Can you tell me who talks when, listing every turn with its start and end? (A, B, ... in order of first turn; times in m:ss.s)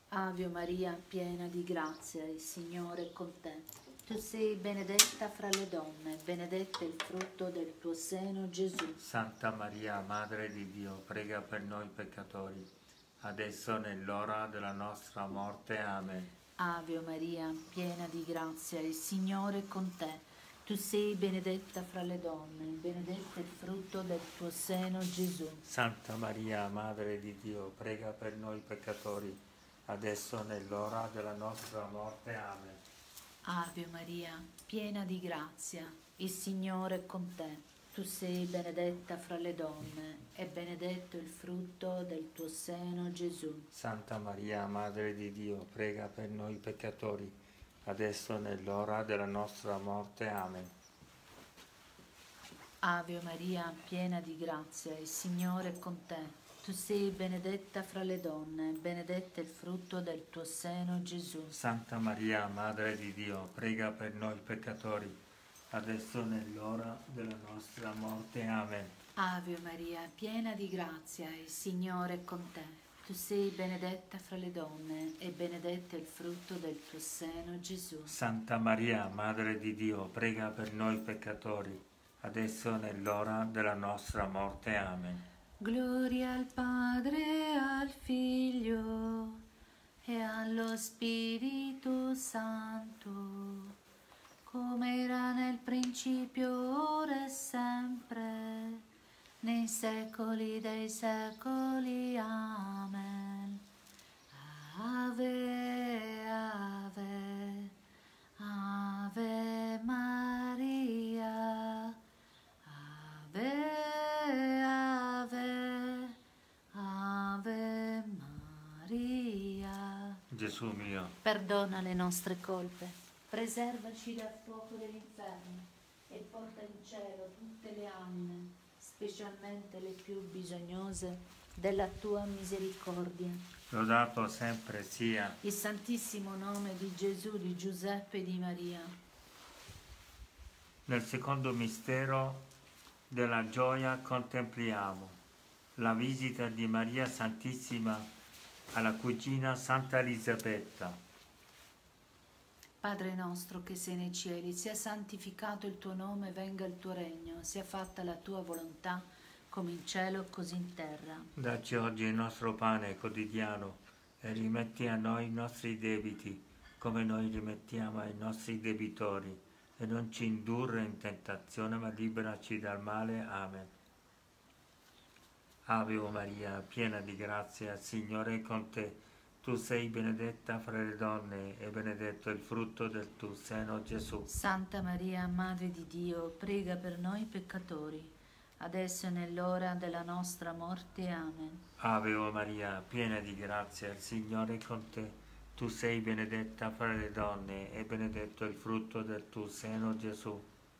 0:00.1-0:09.0 A
0:09.0-0:16.3 B
0:16.6-0:25.6 A
0:25.6-0:32.8 B
0:33.4-0:43.7 A
0:43.7-0:50.7 B
0:52.8-1:01.6 A
1:01.5-1:05.2 B
1:05.7-1:09.0 B
1:09.2-1:18.2 A
1:18.1-1:25.2 B
1:25.6-1:29.4 A
1:30.0-1:33.7 A
1:34.4-1:38.8 A
1:39.4-1:43.6 A
1:44.3-1:47.7 A
1:48.4-1:52.0 A
1:52.6-1:56.2 A
1:56.7-2:00.2 A
2:00.3-2:01.2 B
2:01.2-2:13.4 A
2:13.7-2:15.4 B
2:15.4-2:18.9 A
2:20.8-2:22.5 B
2:23.1-2:25.2 B
2:25.8-2:28.1 B
2:28.7-2:31.0 B
2:32.8-2:41.3 A
2:41.4-2:53.7 B
2:55.6-3:04.3 B
3:04.3-3:11.6 A
3:11.8-3:20.5 B